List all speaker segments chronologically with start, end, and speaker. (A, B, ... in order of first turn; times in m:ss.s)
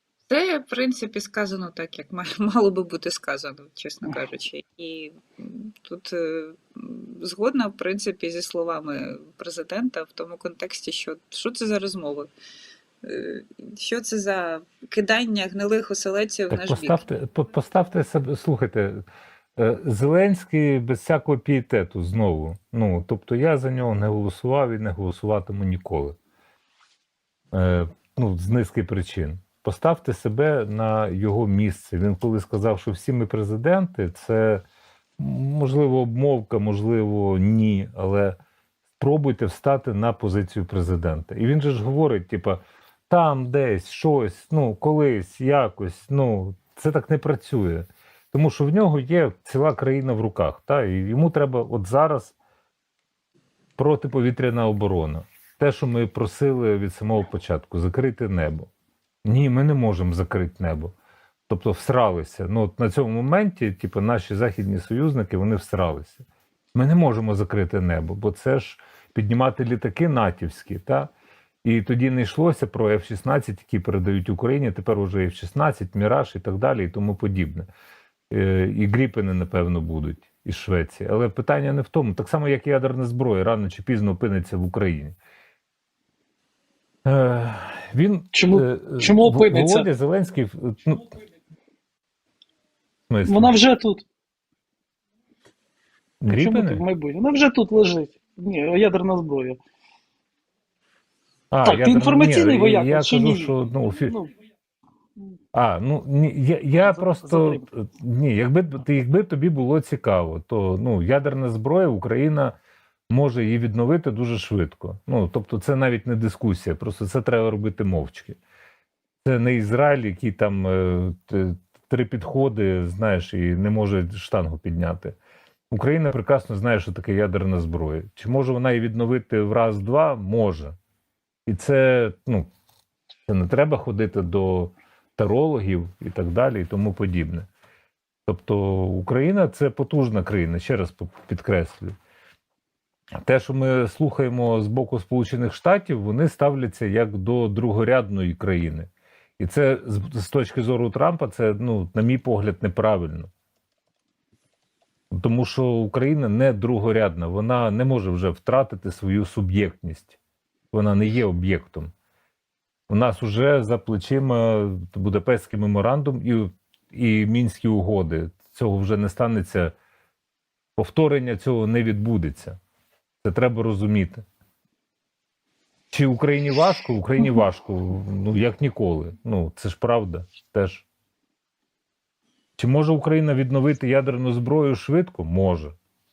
0:00.3-0:12.3 A
0:13.0-0:17.0 A
0:16.5-0:19.0 B
0:19.6-0:26.2 B
0:27.5-0:34.6 B
0:35.2-0:38.4 B
0:39.0-0:52.3 B
0:53.8-0:58.7 B
0:59.2-1:00.9 B
1:01.5-1:11.1 B
1:11.6-1:17.7 B
1:18.3-1:25.2 B
1:27.0-1:31.1 B
1:28.3-1:29.9 C
1:33.1-1:33.5 B
1:33.2-1:34.0 C
1:36.2-1:36.8 B
1:36.3-1:39.6 C
1:41.5-1:44.1 B
1:41.6-1:44.3 C
1:45.5-1:52.6 B
1:46.9-1:47.6 C
1:53.1-1:58.4 B
1:59.2-2:05.2 B
2:05.7-2:10.8 B
2:11.4-2:12.5 B
2:13.3-2:17.5 B
2:18.2-2:22.0 B
2:23.2-2:33.3 B
2:35.1-2:40.2 B
2:40.7-2:41.9 B
2:42.9-2:49.7 B
2:50.8-2:52.6 B
2:53.2-2:54.2 B
2:55.9-3:00.8 B
3:02.6-3:05.7 B